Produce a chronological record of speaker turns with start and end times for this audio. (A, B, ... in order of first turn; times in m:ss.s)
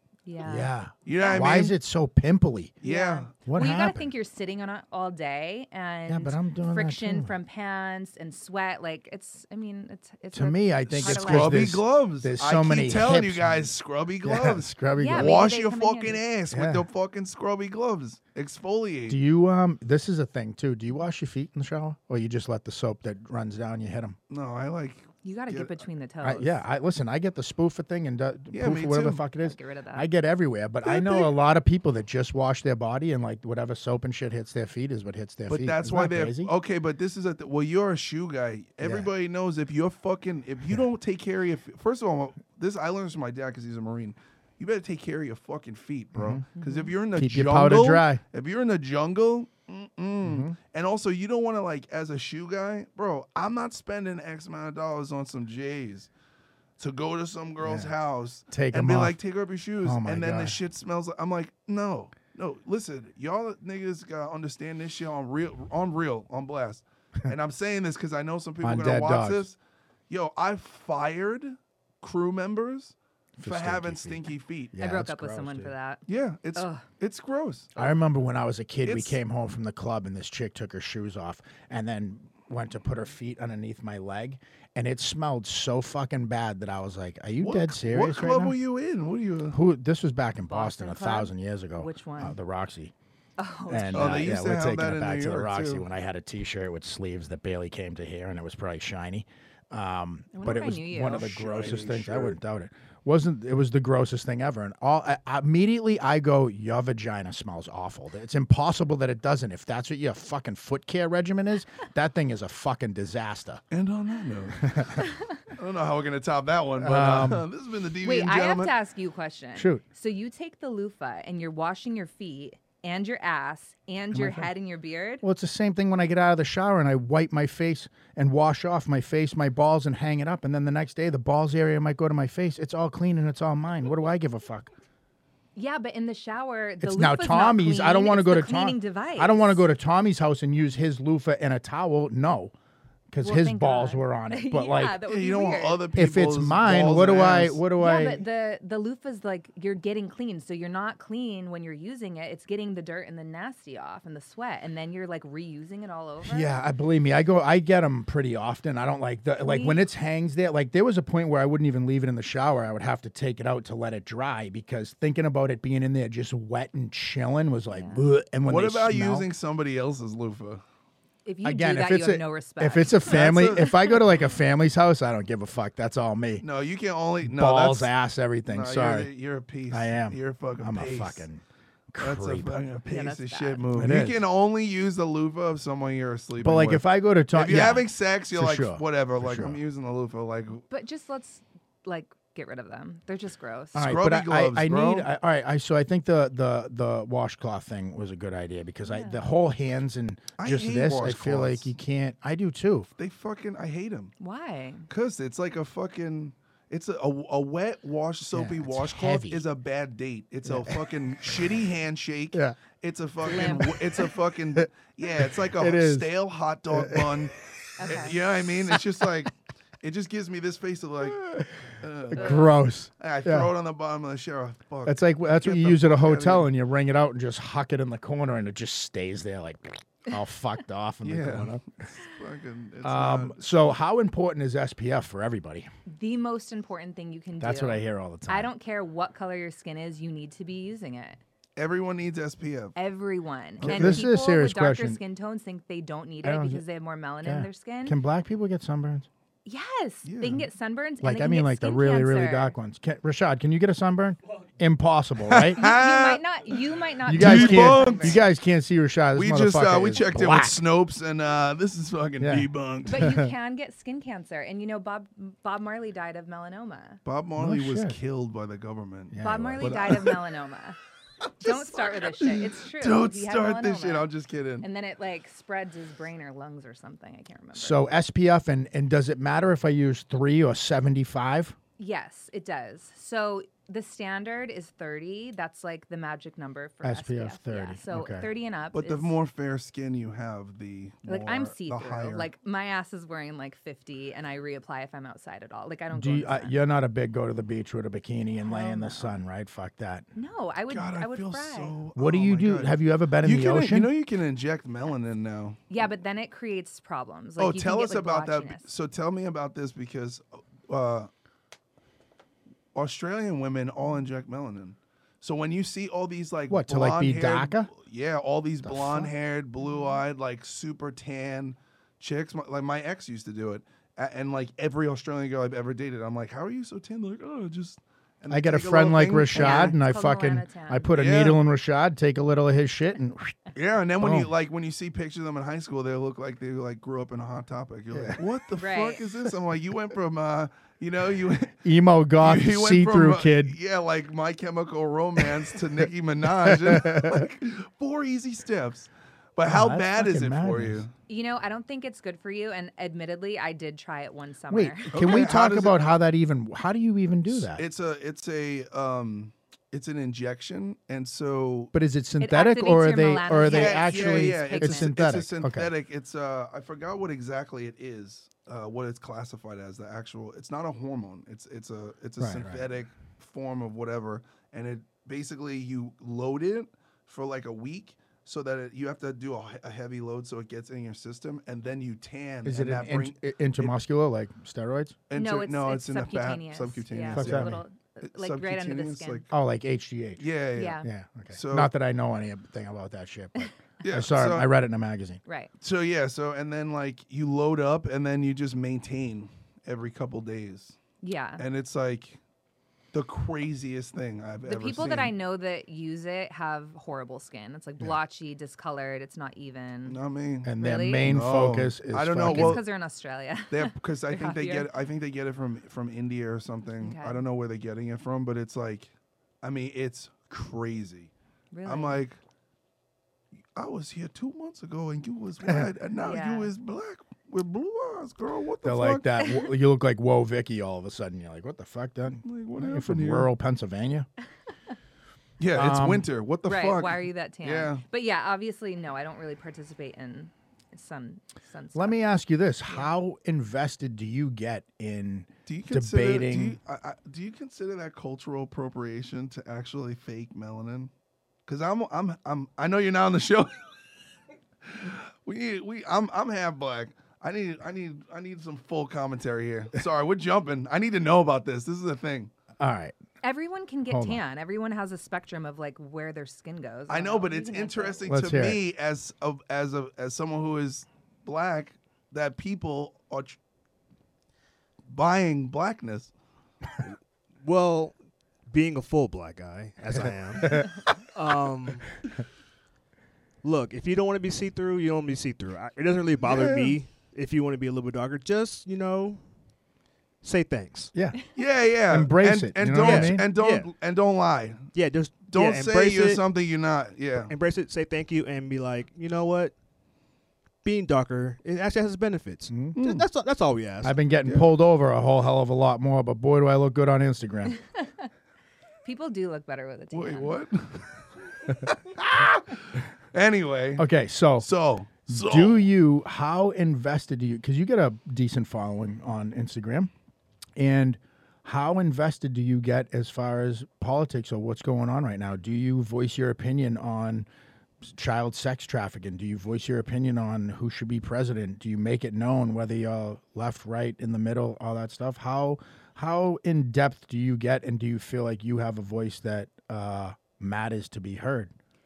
0:00.3-0:01.6 A
0:00.4-0:02.7 B
0:01.0-0:01.8 C
0:02.8-0:03.3 C
0:02.8-0:11.7 A
0:03.4-0:04.1 B
0:06.1-0:07.3 B
0:10.3-0:13.7 B
0:10.9-0:19.2 C
0:14.2-0:15.4 B
0:15.0-0:16.2 A
0:16.5-0:16.9 B
0:19.1-0:24.2 B
0:24.3-0:25.8 C
0:25.2-0:26.6 A
0:26.2-0:36.5 B
0:28.5-0:29.2 C
0:29.4-0:30.1 A
0:30.8-0:31.3 C
0:35.5-0:56.1 C
0:38.8-0:39.1 B
0:46.1-0:46.4 B
0:46.6-0:46.9 A
0:47.1-0:48.2 B
0:50.2-0:50.6 B
0:56.8-1:09.6 C
0:57.6-0:57.9 B
0:58.5-0:59.2 B
0:59.8-1:00.6 B
1:08.6-1:09.4 B
1:10.1-1:14.7 C
1:13.4-1:15.7 B
1:14.8-1:16.0 A
1:16.1-1:17.8 C
1:16.6-1:16.9 A
1:17.8-1:28.6 B
1:18.8-1:19.2 C
1:27.4-1:29.6 C
1:29.5-1:32.9 B
1:30.5-1:32.4 A
1:33.4-1:34.4 A
1:33.7-1:53.6 B
1:33.9-1:35.8 C
1:40.3-1:41.2 A
1:41.0-1:42.4 C
1:53.7-1:58.7 C
1:54.6-1:55.0 B
1:56.8-1:57.4 B
1:58.0-2:05.2 A
1:59.6-1:59.8 B
2:04.1-2:04.5 B
2:05.2-2:14.7 B
2:15.6-2:19.6 A
2:16.8-2:22.5 B
2:23.1-2:25.0 B
2:23.2-2:25.8 A
2:25.1-2:27.6 C
2:25.9-2:28.2 B
2:27.8-2:36.5 A
2:36.2-2:49.3 B
2:39.4-2:39.8 A
2:47.7-2:48.0 A
2:48.5-2:50.6 C
2:51.3-2:53.9 A
2:51.4-2:56.4 B
2:53.0-2:54.1 C
2:56.4-2:57.9 C
2:57.2-2:59.1 B
2:58.5-3:01.3 C
2:59.7-3:02.6 B
3:02.0-3:10.6 C
3:02.9-3:03.7 A
3:03.7-3:04.3 B
3:06.4-3:09.6 B
3:10.7-3:13.8 A
3:13.7-3:15.1 C
3:13.7-3:22.9 B
3:18.9-3:19.3 A
3:20.4-3:21.7 C
3:23.0-3:24.1 C
3:24.2-3:24.9 A
3:24.9-3:37.3 C
3:28.3-3:29.4 B
3:30.4-3:30.8 B
3:33.3-3:33.8 A
3:33.3-3:34.7 B
3:35.2-3:36.1 B
3:36.7-3:37.3 B
3:37.8-3:38.2 A
3:37.8-3:39.1 B
3:37.9-3:46.5 C
3:41.1-3:41.5 B
3:42.1-3:43.5 B
3:42.1-3:42.5 A
3:44.9-3:51.6 B
3:51.0-3:53.4 C
3:52.8-3:55.7 B
3:55.9-4:01.2 A
3:57.4-3:58.5 B
4:01.6-4:02.8 C
4:02.8-4:08.0 A
4:03.6-4:04.0 C
4:03.6-4:05.0 B
4:06.2-4:06.6 B
4:07.2-4:09.1 B
4:09.4-4:12.5 A
4:10.0-4:10.4 C
4:11.0-4:15.6 B
4:15.2-4:16.2 C
4:15.6-4:18.2 A
4:17.0-4:20.6 B
4:17.1-4:18.2 C
4:19.1-4:23.1 C
4:22.2-4:23.3 B
4:22.9-4:27.0 A
4:27.0-4:30.2 C
4:27.4-4:28.0 B
4:29.1-4:30.0 B
4:29.2-4:30.8 A
4:31.4-4:34.1 A
4:31.4-4:34.7 C
4:34.6-4:37.9 A
4:37.6-4:41.6 B
4:41.8-4:49.1 A
4:46.8-4:48.3 B
4:48.7-4:52.3 C
4:51.0-4:56.6 A
4:55.9-5:00.0 B
4:58.4-4:59.2 A
5:00.1-5:01.8 A
5:00.7-5:05.6 C
5:02.0-5:03.9 B
5:05.7-5:08.7 A
5:07.4-5:11.1 C
5:12.7-5:29.8 C
5:16.5-5:17.7 B
5:18.6-5:19.1 B
5:19.6-5:20.0 A
5:28.3-5:33.4 B
5:29.3-5:30.9 A
5:30.9-5:31.4 C
5:33.6-5:41.6 C
5:34.0-5:34.3 B
5:37.9-5:38.2 B
5:38.6-5:39.0 A
5:41.6-5:43.6 B
5:42.2-5:50.9 C
5:46.4-5:47.3 B
5:49.4-5:50.8 B
5:51.1-5:55.2 A
5:54.5-5:57.6 B
5:54.9-5:55.9 C
5:57.3-6:01.7 C
6:01.7-6:05.7 B
6:02.2-6:05.0 A
6:03.4-6:23.7 C
6:12.2-6:12.7 B
6:22.4-6:25.0 B
6:25.1-6:29.3 C
6:25.1-6:29.2 A
6:27.1-6:27.6 B
6:29.3-6:30.2 B
6:30.2-6:31.7 C
6:30.6-6:30.9 A
6:30.8-6:35.2 B
6:33.8-6:34.5 C
6:35.2-6:35.5 A
6:35.6-6:40.8 C
6:41.0-6:41.4 A
6:41.4-6:42.2 C
6:42.9-6:45.1 C
6:44.4-6:50.0 A
6:49.9-6:52.6 C
6:50.4-6:52.6 B
6:50.6-6:51.0 A
6:52.2-6:54.7 A
6:53.5-6:58.9 C
6:56.8-6:57.2 A
6:59.4-7:01.1 C
7:01.5-7:02.0 A
7:01.6-7:02.2 C
7:03.6-7:09.1 C
7:06.0-7:06.5 A
7:08.6-7:14.1 B
7:12.2-7:13.3 C
7:15.4-7:17.8 C
7:15.5-7:16.1 B
7:16.4-7:22.0 A
7:21.7-7:26.6 B
7:25.5-7:30.9 C
7:31.5-7:33.6 C
7:34.6-7:42.3 C
7:42.6-7:43.0 B
7:43.2-7:48.0 A
7:43.9-7:44.2 B
7:46.9-7:53.4 C
7:48.0-7:48.6 B
7:54.9-7:56.1 C
7:56.8-7:58.0 D
7:58.5-8:02.1 D
7:59.9-8:00.8 B
8:03.4-8:09.2 D
8:06.2-8:06.7 C
8:10.2-8:10.9 D
8:10.9-8:11.2 B
8:11.3-8:14.7 C
8:11.9-8:13.3 B
8:12.8-8:13.7 D
8:14.7-8:16.2 D
8:15.3-8:17.3 C
8:17.3-8:19.5 D
8:20.6-8:24.0 D
8:22.5-8:22.8 B
8:22.8-8:23.0 C
8:23.8-8:27.6 B
8:28.8-8:30.4 A
8:29.9-8:33.9 C
8:33.8-8:34.5 B
8:34.4-8:35.7 C
8:35.1-8:39.9 B
8:40.6-8:47.3 B
8:47.8-9:01.5 B